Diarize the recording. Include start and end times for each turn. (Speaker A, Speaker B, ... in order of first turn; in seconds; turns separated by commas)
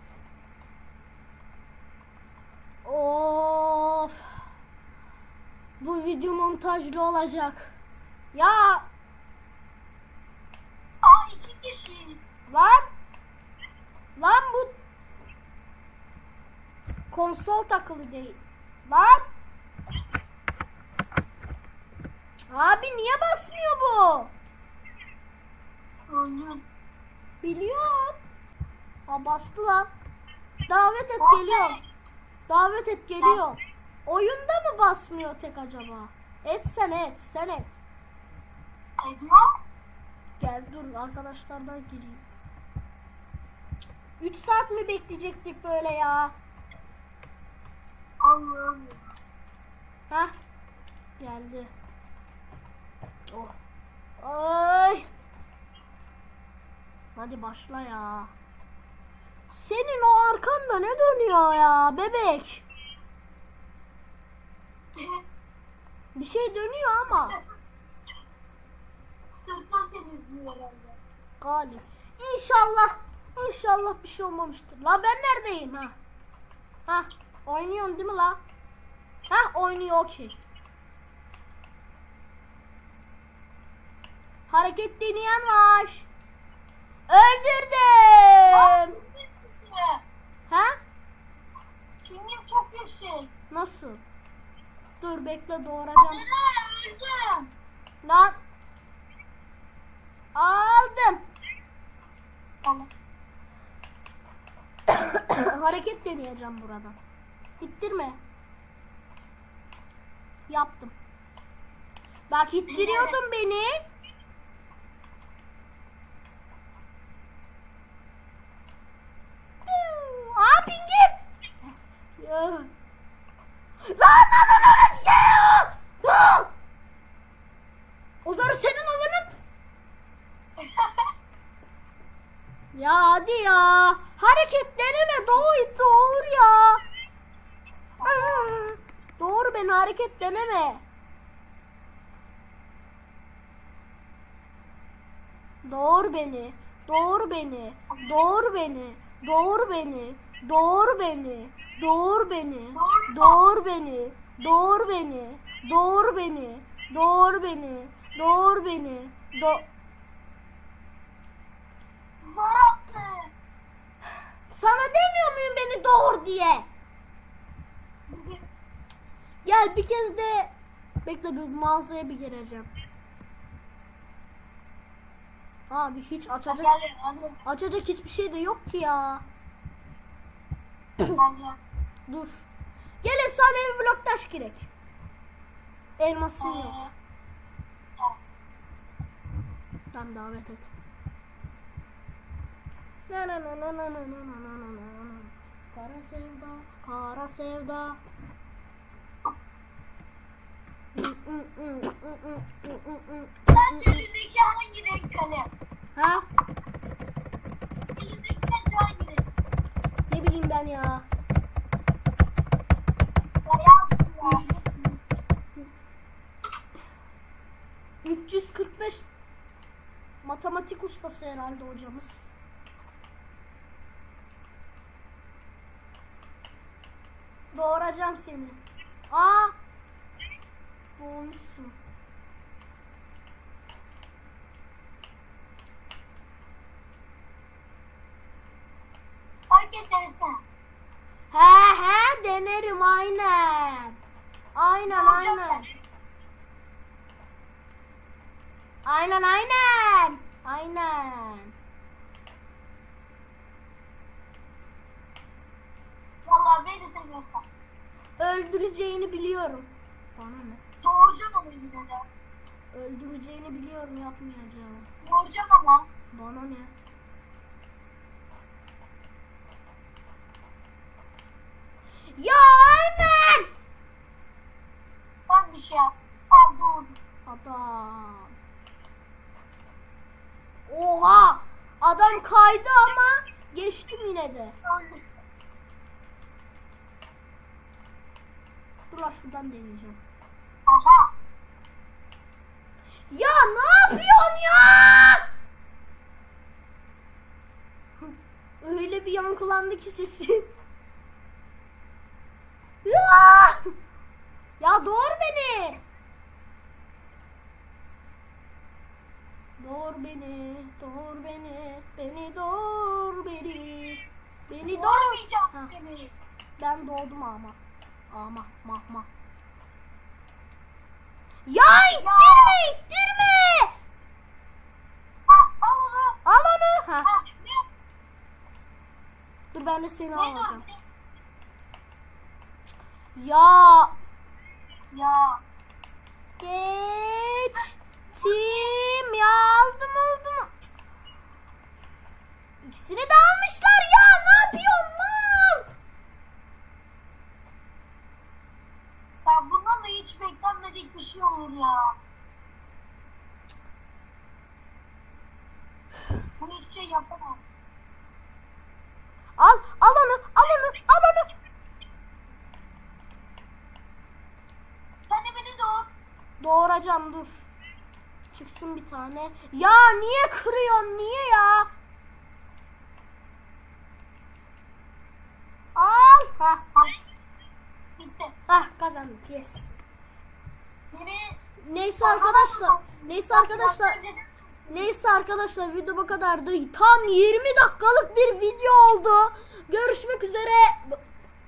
Speaker A: 2.8-4.2, Speaker A: 5.8-7.7, Speaker A: 8.3-8.9, Speaker B: 11.0-12.2, Speaker A: 12.5-12.8, Speaker A: 14.2-14.8, Speaker A: 17.1-19.2, Speaker A: 22.5-24.3, Speaker B: 26.1-26.6, Speaker A: 27.4-28.2, Speaker A: 29.1-29.9, Speaker A: 30.7-31.8, Speaker B: 31.2-31.8, Speaker A: 32.5-37.8, Speaker B: 39.0-39.5, Speaker A: 40.4-42.2, Speaker A: 44.2-46.3, Speaker B: 48.2-49.0, Speaker A: 51.2-51.7, Speaker A: 53.3-53.5, Speaker A: 54.2-55.1, Speaker A: 57.1-58.3, Speaker A: 59.5-62.7, Speaker B: 65.0-65.2, Speaker A: 66.1-67.4, Speaker B: 69.3-71.0, Speaker A: 71.4-76.0, Speaker A: 76.9-78.4, Speaker A: 79.3-80.4, Speaker A: 84.5-86.1, Speaker A: 87.1-89.0, Speaker B: 88.5-90.0, Speaker A: 90.5-90.8, Speaker B: 92.0-93.3, Speaker A: 93.5-94.0, Speaker A: 95.0-96.3, Speaker B: 96.0-97.5, Speaker A: 98.0-98.3, Speaker A: 100.3-101.2, Speaker B: 102.6-102.9, Speaker A: 104.9-107.0, Speaker A: 107.6-108.2, Speaker A: 110.5-110.9, Speaker A: 112.3-113.8, Speaker B: 112.7-113.2, Speaker A: 119.7-121.2, Speaker A: 122.2-122.7, Speaker A: 123.9-126.5, Speaker A: 128.2-129.4, Speaker B: 130.6-131.1, Speaker A: 132.7-136.8, Speaker B: 138.0-138.5, Speaker A: 138.0-140.8, Speaker A: 145.6-159.7, Speaker B: 152.7-153.4, Speaker B: 162.2-163.3, Speaker A: 164.5-166.7, Speaker B: 168.1-168.4, Speaker A: 169.4-170.5, Speaker A: 171.0-172.7, Speaker A: 175.7-176.7, Speaker B: 176.5-177.4, Speaker A: 177.4-179.2, Speaker B: 181.0-181.6, Speaker A: 182.1-182.4, Speaker A: 183.0-184.7, Speaker A: 186.0-186.8, Speaker B: 186.4-186.9, Speaker B: 188.0-188.3, Speaker A: 189.9-190.7, Speaker A: 193.1-198.0, Speaker A: 200.9-204.0, Speaker B: 203.5-205.5, Speaker A: 205.9-206.2, Speaker B: 207.9-209.2, Speaker A: 210.1-211.1, Speaker B: 213.4-214.9, Speaker A: 218.0-219.1, Speaker A: 220.2-222.3, Speaker A: 227.5-229.5, Speaker A: 231.0-231.8, Speaker B: 239.5-240.4, Speaker A: 241.3-244.0, Speaker A: 244.5-245.7, Speaker B: 244.9-245.7, Speaker A: 248.8-251.5, Speaker B: 256.2-257.4, Speaker A: 258.2-260.6, Speaker B: 260.8-262.0, Speaker A: 262.7-264.9, Speaker B: 265.0-265.9, Speaker A: 266.1-266.7, Speaker A: 272.1-273.5, Speaker B: 275.3-277.0, Speaker A: 277.2-278.3, Speaker A: 280.7-284.6, Speaker B: 284.6-285.0, Speaker A: 288.9-290.0, Speaker B: 290.7-291.1, Speaker A: 293.1-295.2, Speaker A: 298.6-300.5, Speaker A: 302.8-303.6, Speaker A: 304.6-305.8, Speaker A: 309.6-315.7, Speaker B: 314.7-316.1, Speaker A: 316.6-317.6, Speaker A: 318.1-319.1, Speaker A: 321.5-323.7, Speaker B: 322.0-322.6, Speaker B: 325.3-326.2, Speaker A: 326.2-327.1, Speaker B: 327.0-327.6, Speaker A: 329.5-330.6, Speaker B: 330.1-330.8, Speaker A: 333.1-333.9, Speaker B: 334.9-335.4, Speaker A: 336.4-340.5, Speaker B: 338.2-338.7, Speaker A: 342.6-345.7, Speaker B: 349.2-351.9, Speaker B: 356.4-357.6, Speaker A: 359.4-361.3, Speaker B: 365.1-365.9, Speaker A: 366.4-367.5, Speaker A: 368.3-371.7, Speaker A: 375.7-376.6, Speaker B: 378.0-378.3, Speaker A: 378.5-379.8, Speaker B: 380.9-381.4, Speaker A: 381.6-384.0, Speaker B: 382.0-384.9, Speaker A: 384.7-391.0